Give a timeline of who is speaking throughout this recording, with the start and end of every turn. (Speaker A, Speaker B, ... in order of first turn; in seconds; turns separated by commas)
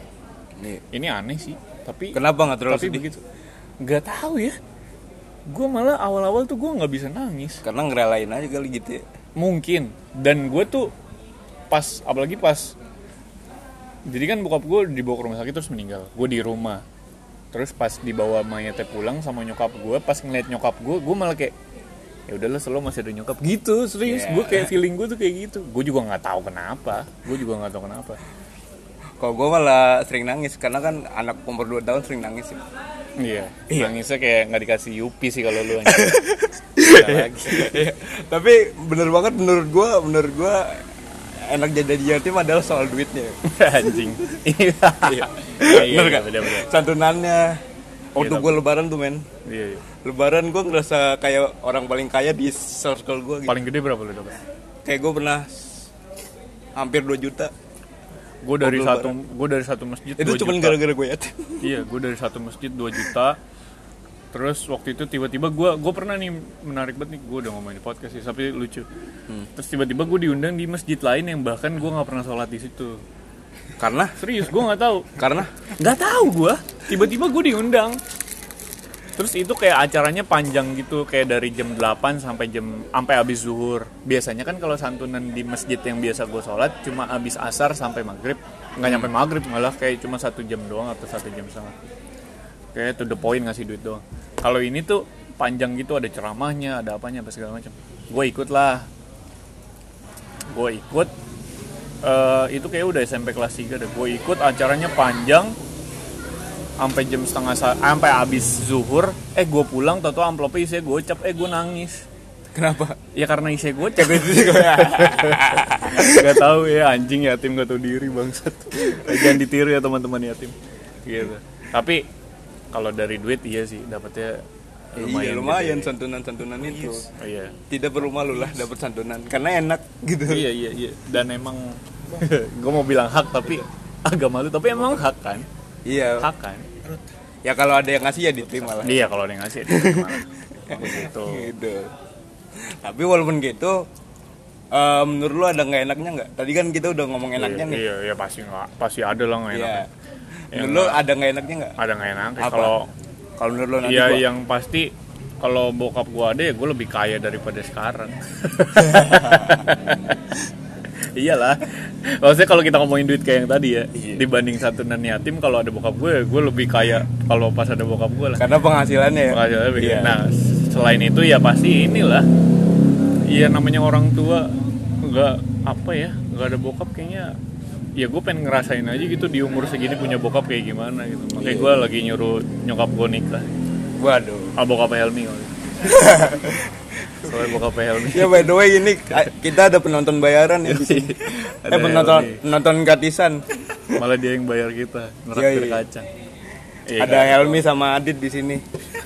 Speaker A: 0.9-3.2, Speaker B: 2.1-3.0, Speaker A: 3.8-4.6, Speaker A: 5.5-7.6, Speaker B: 7.6-9.0, Speaker A: 9.4-10.9, Speaker A: 11.7-12.8, Speaker A: 14.1-16.8, Speaker A: 17.5-21.6, Speaker A: 22.3-28.2, Speaker B: 24.0-24.7, Speaker B: 29.2-32.6, Speaker A: 33.2-36.3, Speaker B: 35.9-40.8, Speaker A: 36.8-37.9, Speaker B: 41.4-43.4, Speaker A: 43.4-46.7, Speaker B: 45.0-47.6, Speaker B: 48.1-49.2, Speaker A: 48.2-48.6, Speaker A: 49.5-49.8, Speaker B: 50.0-53.6, Speaker A: 53.5-54.4, Speaker B: 54.9-55.9, Speaker B: 56.8-57.5, Speaker A: 58.4-60.8, Speaker B: 58.6-59.1, Speaker B: 60.2-61.7, Speaker A: 61.6-63.4, Speaker A: 64.3-68.9, Speaker A: 69.5-73.0, Speaker B: 73.8-74.2, Speaker A: 74.2-75.2, Speaker B: 75.2-75.7, Speaker A: 75.8-78.0, Speaker A: 79.2-91.8, Speaker B: 88.8-89.1, Speaker A: 92.7-98.9, Speaker A: 100.5-101.1, Speaker A: 102.0-105.6, Speaker A: 106.8-112.1, Speaker B: 112.5-113.0, Speaker A: 113.1-122.1, Speaker B: 114.0-116.4, Speaker A: 122.7-124.4, Speaker A: 124.9-125.9, Speaker B: 125.0-127.1, Speaker A: 127.2-127.6, Speaker B: 127.7-130.5, Speaker A: 130.3-135.5, Speaker B: 135.9-136.3, Speaker A: 136.2-136.7, Speaker B: 137.4-139.1, Speaker A: 138.8-141.5, Speaker B: 139.7-141.9, Speaker B: 142.6-143.8, Speaker B: 144.7-147.8, Speaker A: 147.4-149.9, Speaker B: 149.5-149.9, Speaker B: 150.5-151.8, Speaker A: 150.5-151.0, Speaker A: 151.8-152.9, Speaker B: 152.4-152.7, Speaker B: 153.4-154.3, Speaker A: 153.8-160.4, Speaker B: 158.8-159.7, Speaker A: 161.0-168.4, Speaker B: 163.9-164.2, Speaker B: 168.4-170.2, Speaker A: 169.3-172.3, Speaker A: 173.3-177.3, Speaker A: 178.0-183.5, Speaker B: 181.4-181.8, Speaker B: 184.0-184.6, Speaker A: 184.6-186.0, Speaker B: 185.8-187.5, Speaker A: 187.2-188.6, Speaker B: 188.1-194.0, Speaker A: 190.7-192.4, Speaker A: 193.9-196.1, Speaker B: 195.3-195.8, Speaker A: 196.9-197.7, Speaker B: 197.0-198.6